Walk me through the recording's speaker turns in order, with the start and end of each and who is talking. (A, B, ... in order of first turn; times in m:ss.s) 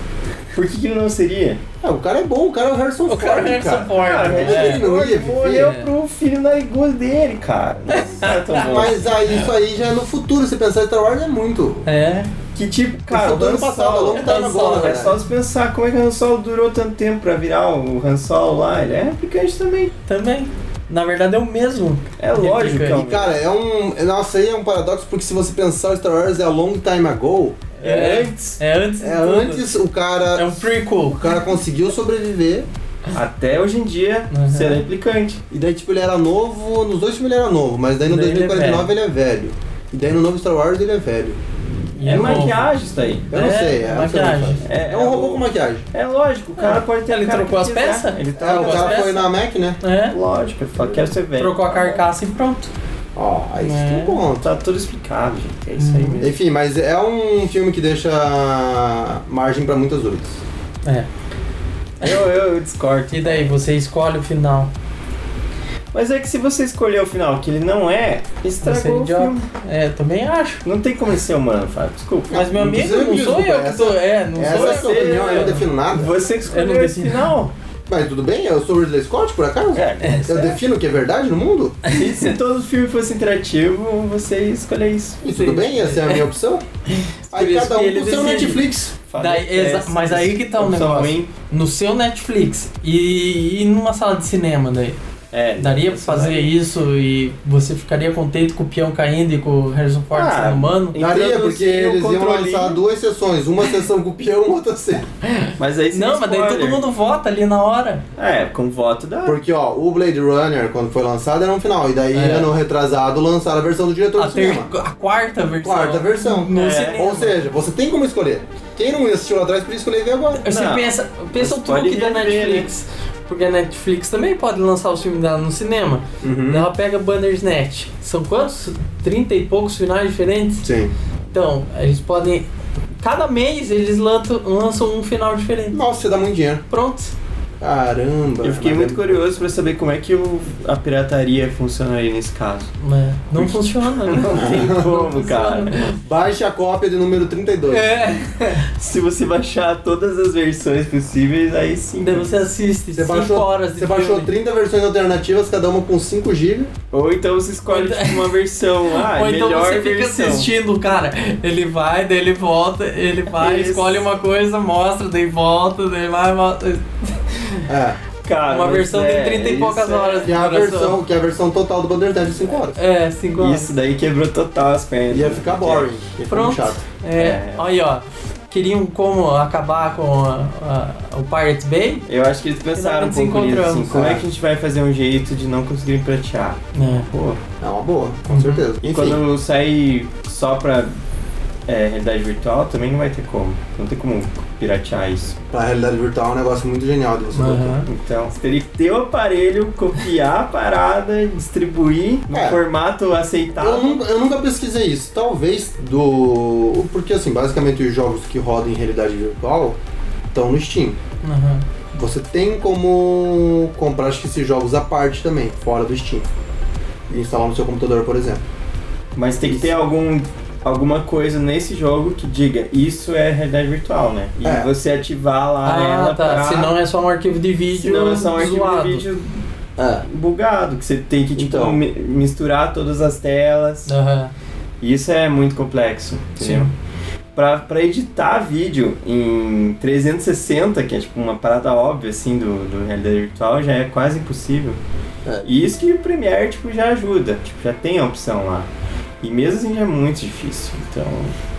0:00.5-0:01.6 A
0:01.8-0:05.7 B
0:03.1-0:04.9 C
0:04.0-0:09.0 A
0:05.5-0:05.9 C
0:07.9-0:08.6 C
0:08.6-0:11.9 B
0:11.8-0:12.3 C
0:12.6-0:19.9 A
0:13.1-0:15.2 B
0:14.1-0:15.1 C
0:20.1-0:23.0 C
0:22.2-0:23.4 A
0:22.9-0:27.7 B
0:27.8-0:29.7 C
0:27.8-0:28.6 A
0:29.0-0:32.7 B
0:30.4-0:31.2 C
0:33.1-0:35.4 A
0:34.3-0:34.8 C
0:35.5-0:41.4 B
0:38.1-0:38.9 C
0:42.0-0:42.6 C
0:42.0-0:43.3 A
0:42.1-0:42.5 B
0:43.3-0:45.8 B
0:43.3-0:44.6 C
0:44.6-0:49.2 A
0:46.6-0:49.2 C
0:48.4-0:49.8 B
0:49.8-0:50.2 C
0:50.1-0:52.0 A
0:51.3-0:52.7 C
0:53.2-0:54.5 B
0:53.6-0:54.2 C
0:54.4-0:56.3 A
0:55.8-0:56.2 C
0:56.2-1:00.4 B
1:02.0-1:03.5 A
1:03.1-1:04.7 C
1:05.9-1:09.4 A
1:08.6-1:10.6 C
1:10.6-1:12.4 A
1:12.3-1:16.1 B
1:12.3-1:15.7 C
1:14.4-1:17.5 A
1:16.5-1:17.3 C
1:17.9-1:21.8 B
1:19.7-1:20.6 A
1:21.9-1:25.6 A
1:25.2-1:26.6 B
1:25.3-1:26.2 C
1:27.3-1:28.6 C
1:27.3-1:28.9 B
1:29.1-1:31.3 A
1:29.2-1:35.0 C
1:35.3-1:36.5 A
1:35.6-1:41.0 C
1:40.1-1:42.8 A
1:41.0-1:45.1 B
1:45.2-1:48.0 C
1:45.6-1:46.8 A
1:48.2-1:49.4 A
1:49.2-1:54.7 B
1:52.2-1:52.5 C
1:54.2-1:57.4 C
1:55.6-2:00.5 B
1:56.5-1:57.0 A
2:00.4-2:10.7 C
2:00.5-2:02.7 A
2:06.2-2:06.7 B
2:10.6-2:10.9 B
2:11.3-2:12.5 C
2:13.0-2:15.8 C
2:15.7-2:16.6 B
2:16.7-2:17.1 C
2:17.6-2:19.2 B
2:18.4-2:22.7 A
2:22.8-2:26.0 C
2:23.4-2:25.9 A
2:24.4-2:24.8 B
2:26.0-2:27.9 B
2:27.7-2:28.6 C
2:28.7-2:32.4 A
2:32.0-2:34.3 C
2:32.9-2:36.7 B
2:36.9-2:40.5 A
2:37.7-2:38.3 C
2:38.9-2:47.7 C
2:43.4-2:44.1 A
2:47.7-2:48.0 B
2:48.2-2:50.3 A
2:48.5-2:51.0 C
2:50.2-2:52.8 B
2:52.8-2:53.7 C
2:53.4-2:55.9 A
2:55.1-2:56.8 B
2:56.3-3:02.1 C
2:57.2-2:57.6 A
3:02.1-3:07.4 A
3:02.7-3:04.0 C
3:03.9-3:04.2 B
3:06.8-3:07.1 C
3:07.6-3:09.2 B
3:08.3-3:08.6 C
3:08.8-3:10.9 A
3:11.7-3:15.4 A
3:15.5-3:17.8 B
3:17.4-3:17.9 C
3:17.9-3:24.0 A
3:22.3-3:22.6 B
3:23.6-3:29.8 B
3:30.3-3:31.0 B
3:31.2-3:31.6 C
3:31.9-3:36.3 B
3:37.1-3:38.4 B
3:39.2-3:46.8 A
3:39.4-3:39.8 B
3:44.4-3:44.7 B
3:45.6-3:49.0 C
3:47.7-3:49.4 A
3:49.8-3:50.1 B
3:50.1-3:53.9 A
3:51.4-3:51.8 B
3:53.9-3:54.3 C
3:54.8-3:56.7 A
3:56.4-3:56.7 C
3:57.4-4:04.8 A
4:05.2-4:05.5 B
4:05.4-4:08.7 A
4:09.2-4:11.4 A